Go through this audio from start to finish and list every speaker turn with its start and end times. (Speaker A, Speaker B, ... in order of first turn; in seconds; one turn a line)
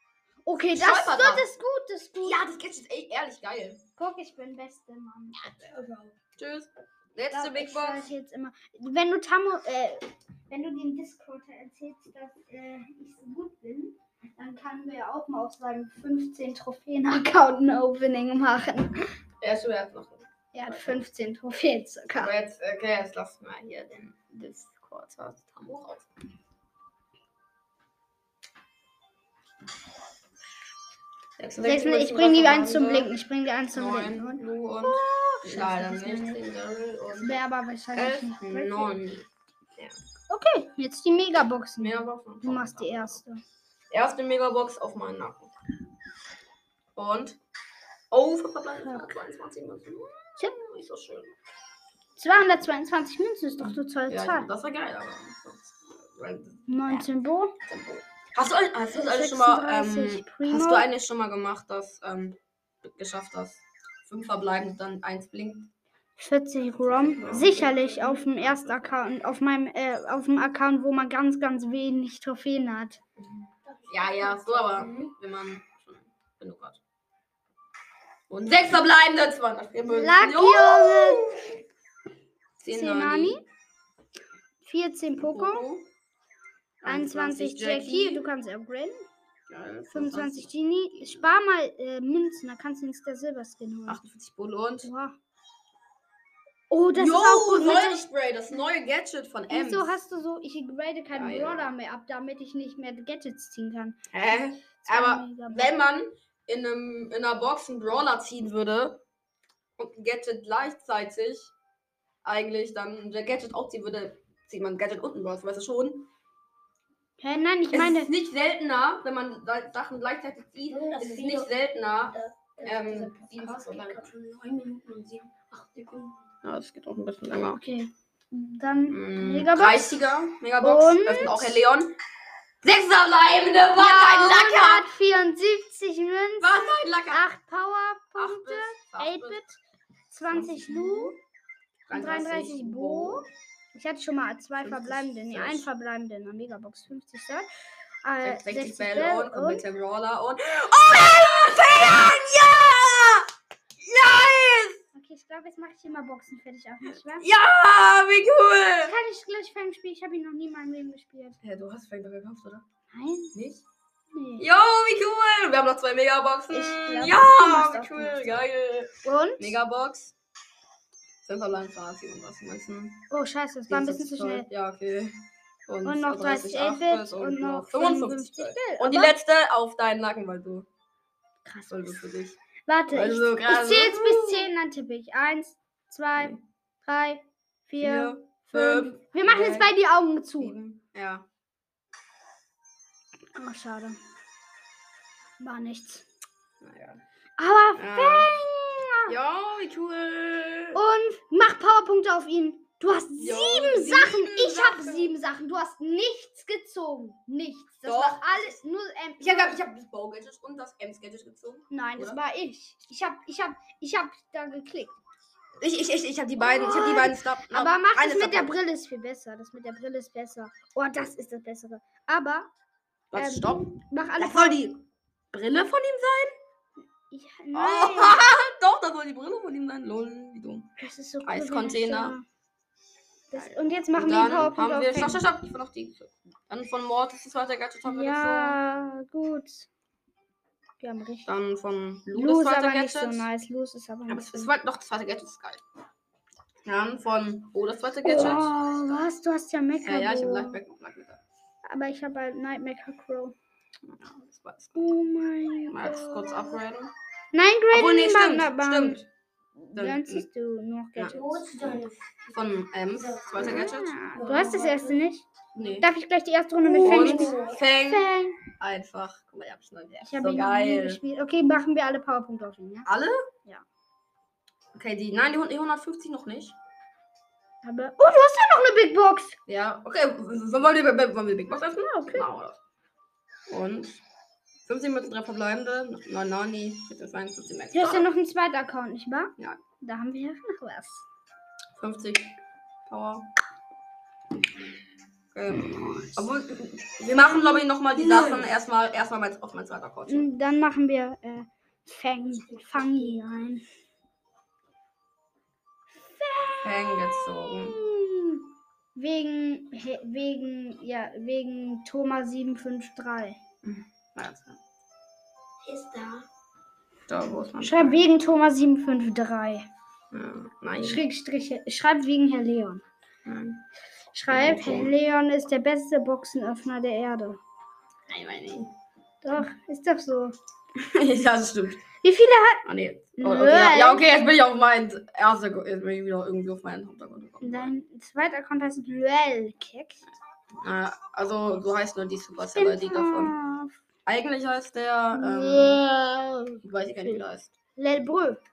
Speaker A: 0.4-2.4
Speaker B: 0.7-1.4
Speaker B: 2.2-3.8
Speaker A: 4.0-5.4
Speaker C: 5.4-6.1
Speaker B: 6.4-8.1
Speaker A: 7.3-19.1
Speaker B: 19.4-21.0
Speaker A: 20.5-22.3
Speaker B: 22.2-26.1
Speaker B: 31.4-33.1
Speaker A: 31.6-36.4
Speaker B: 33.7-37.4
Speaker A: 37.1-39.0
Speaker B: 37.9-40.0
Speaker A: 40.3-43.4
Speaker B: 41.8-43.2
Speaker B: 43.9-45.5
Speaker B: 46.9-47.4
Speaker B: 48.1-51.4
Speaker A: 48.8-49.1
Speaker A: 52.1-54.5
Speaker B: 53.6-57.1
Speaker A: 56.7-57.5
Speaker B: 57.6-65.7
Speaker A: 58.9-60.9
Speaker A: 66.2-73.0
Speaker B: 66.8-69.0
Speaker B: 73.2-76.8
Speaker C: 73.6-75.1
Speaker B: 78.3-81.6
Speaker A: 79.9-81.3
Speaker B: 82.6-83.4
Speaker A: 82.7-83.4
Speaker A: 84.6-85.6
Speaker B: 85.2-85.9
Speaker B: 86.8-88.2
Speaker A: 86.8-89.1
Speaker B: 89.5-91.3
Speaker A: 89.9-94.0
Speaker B: 93.9-94.9
Speaker A: 94.8-95.2
Speaker A: 96.7-98.0
Speaker B: 96.9-99.9
Speaker A: 99.5-104.0
Speaker B: 101.1-101.7
Speaker B: 104.1-109.0
Speaker A: 104.8-105.7
Speaker B: 109.8-111.5
Speaker B: 112.2-116.1
Speaker A: 117.2-118.1
Speaker B: 117.7-124.1
Speaker C: 120.7-121.5
Speaker C: 122.1-126.2
Speaker B: 126.4-127.6
Speaker A: 127.4-129.9
Speaker B: 128.9-131.9
Speaker A: 130.6-131.6
Speaker B: 132.6-134.9
Speaker A: 133.7-139.6
Speaker B: 136.4-137.2
Speaker B: 138.2-139.4
Speaker A: 140.1-141.2
Speaker B: 140.3-141.2
Speaker B: 141.9-143.3
Speaker A: 141.9-147.5
Speaker B: 144.6-145.7
Speaker A: 148.0-149.6
Speaker B: 148.2-154.8
Speaker A: 154.9-157.3
Speaker B: 157.2-158.9
Speaker A: 158.8-161.4
Speaker B: 161.4-162.6
Speaker A: 162.9-163.3
Speaker B: 163.3-163.6
Speaker A: 164.1-164.4
Speaker B: 164.4-170.1
Speaker A: 166.5-168.4
Speaker A: 169.0-169.6
Speaker B: 171.2-173.0
Speaker A: 173.1-174.5
Speaker B: 173.7-180.7
Speaker A: 175.8-179.1
Speaker A: 181.4-182.0
Speaker B: 181.7-182.4
Speaker A: 182.7-190.6
Speaker B: 182.9-184.5
Speaker B: 187.8-189.7
Speaker B: 190.4-191.2
Speaker A: 193.3-194.0
Speaker A: 195.4-196.1
Speaker B: 196.6-197.0
Speaker A: 197.4-199.1
Speaker B: 197.8-198.3
Speaker B: 199.1-200.8
Speaker A: 200.7-209.6
Speaker B: 203.2-205.1
Speaker B: 207.8-208.6
Speaker B: 209.2-212.2
Speaker A: 211.7-214.9
Speaker B: 215.6-218.5
Speaker A: 216.4-222.5
Speaker B: 223.1-226.3
Speaker A: 223.2-224.6
Speaker A: 227.1-228.2
Speaker B: 227.5-230.7
Speaker A: 230.8-232.2
Speaker B: 231.2-232.1
Speaker A: 233.3-235.2
Speaker B: 233.3-238.6
Speaker A: 237.8-239.7
Speaker A: 240.8-241.3
Speaker B: 241.2-243.3
Speaker A: 242.1-244.5
Speaker B: 244.1-245.6
Speaker B: 246.6-249.0
Speaker A: 248.0-250.6
Speaker B: 249.8-251.2
Speaker A: 251.6-253.3
Speaker B: 253.8-254.9
Speaker A: 254.8-256.5
Speaker B: 255.7-256.9
Speaker A: 257.3-259.0
Speaker B: 257.7-259.1
Speaker B: 259.7-260.2
Speaker A: 259.7-261.5
Speaker B: 260.9-261.8
Speaker C: 261.1-265.0
Speaker B: 262.3-263.9
Speaker A: 263.4-265.2
Speaker B: 265.5-265.9
Speaker A: 265.8-268.4
Speaker B: 266.7-268.1
Speaker C: 266.7-267.6
Speaker B: 268.6-271.0
Speaker A: 270.0-272.9
Speaker B: 272.8-273.3
Speaker B: 274.7-276.6
Speaker A: 277.6-279.4
Speaker B: 279.5-282.6
Speaker A: 281.9-282.2
Speaker B: 283.5-284.0
Speaker B: 284.6-288.1
Speaker A: 287.7-291.1
Speaker B: 291.8-292.3
Speaker B: 292.9-293.3
Speaker B: 295.3-300.3
Speaker C: 297.9-298.5
Speaker A: 300.1-303.6
Speaker C: 302.4-303.3
Speaker A: 306.1-307.0
Speaker B: 306.6-307.8
Speaker A: 307.5-313.4
Speaker B: 313.6-314.6
Speaker C: 315.6-316.3
Speaker B: 317.1-318.0
Speaker A: 317.6-319.7
Speaker B: 320.1-321.0
Speaker A: 320.8-322.8
Speaker B: 323.2-323.6
Speaker A: 324.1-327.4
Speaker B: 324.3-324.9
Speaker B: 328.1-328.7
Speaker A: 329.2-330.3
Speaker B: 330.7-331.8
Speaker A: 332.0-332.6
Speaker B: 332.6-337.7
Speaker A: 333.2-334.0
Speaker A: 337.4-340.1
Speaker B: 340.5-343.3
Speaker A: 342.5-343.7
Speaker B: 344.1-345.8
Speaker A: 345.1-347.2
Speaker B: 346.6-347.5
Speaker A: 347.8-348.4